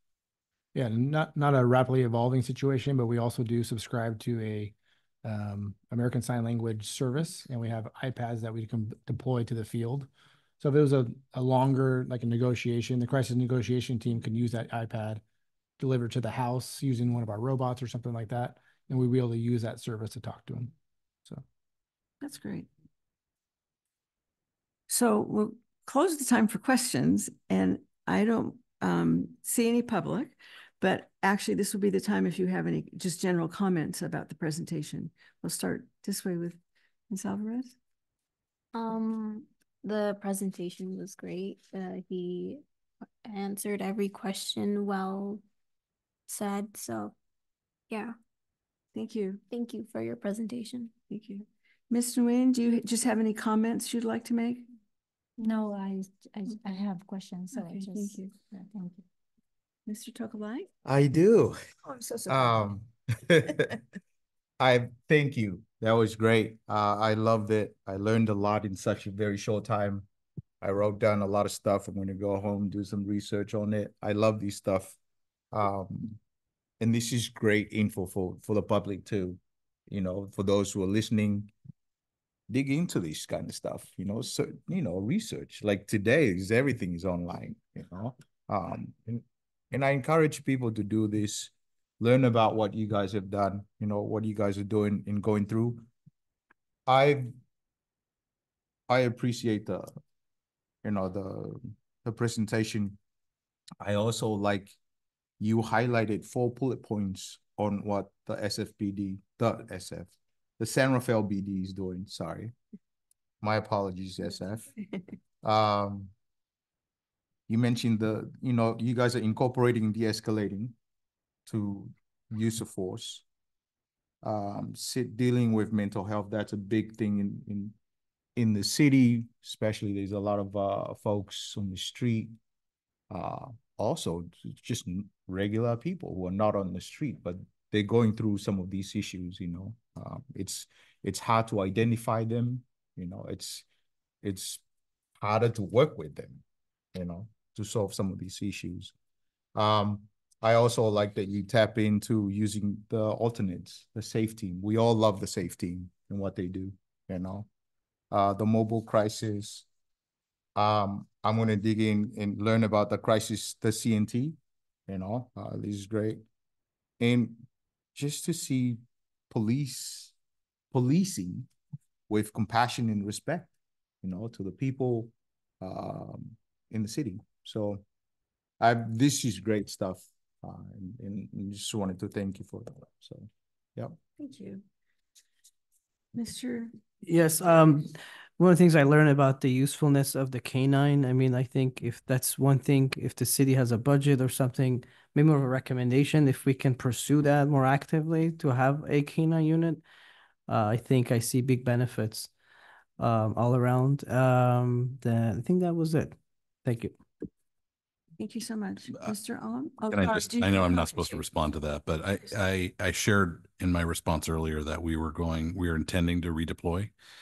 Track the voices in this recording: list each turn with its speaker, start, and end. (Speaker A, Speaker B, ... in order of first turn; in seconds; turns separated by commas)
Speaker A: 0.7-10.1, Speaker A: 10.6-15.2, Speaker A: 15.8-20.7, Speaker B: 22.2-22.7, Speaker B: 24.9-36.6, Speaker B: 37.1-37.8, Speaker C: 38.7-42.6, Speaker C: 43.2-45.4, Speaker C: 46.3-47.1, Speaker C: 47.9-48.1, Speaker B: 48.9-49.4, Speaker C: 49.5-50.9, Speaker B: 51.1-54.7, Speaker D: 55.4-59.0, Speaker B: 57.5-58.3, Speaker B: 59.9-60.7, Speaker E: 60.8-61.6, Speaker B: 61.8-62.7, Speaker E: 62.3-63.7, Speaker E: 64.6-70.1, Speaker E: 70.6-75.0, Speaker E: 75.5-76.2, Speaker E: 76.8-81.5, Speaker E: 82.5-95.8, Speaker E: 96.9-97.3, Speaker E: 98.9-100.0, Speaker E: 100.8-103.0, Speaker E: 103.8-104.8, Speaker E: 105.4-112.5, Speaker E: 113.4-114.7, Speaker E: 115.4-116.1, Speaker E: 117.5-120.7, Speaker E: 121.5-123.2, Speaker E: 124.2-127.7, Speaker E: 128.3-132.4, Speaker E: 133.1-143.7, Speaker E: 144.2-144.6, Speaker E: 145.2-146.4, Speaker E: 146.9-148.9, Speaker E: 149.5-157.5, Speaker E: 158.1-159.7, Speaker E: 160.6-164.4, Speaker E: 164.9-166.2, Speaker E: 167.0-170.1, Speaker E: 170.7-171.5, Speaker E: 172.1-173.5, Speaker E: 174.0-177.8, Speaker E: 178.6-184.0, Speaker B: 184.2-184.6, Speaker B: 186.1-186.7, Speaker F: 187.0-199.8, Speaker F: 200.5-202.3, Speaker F: 203.0-207.0, Speaker B: 208.2-211.2, Speaker G: 209.9-216.9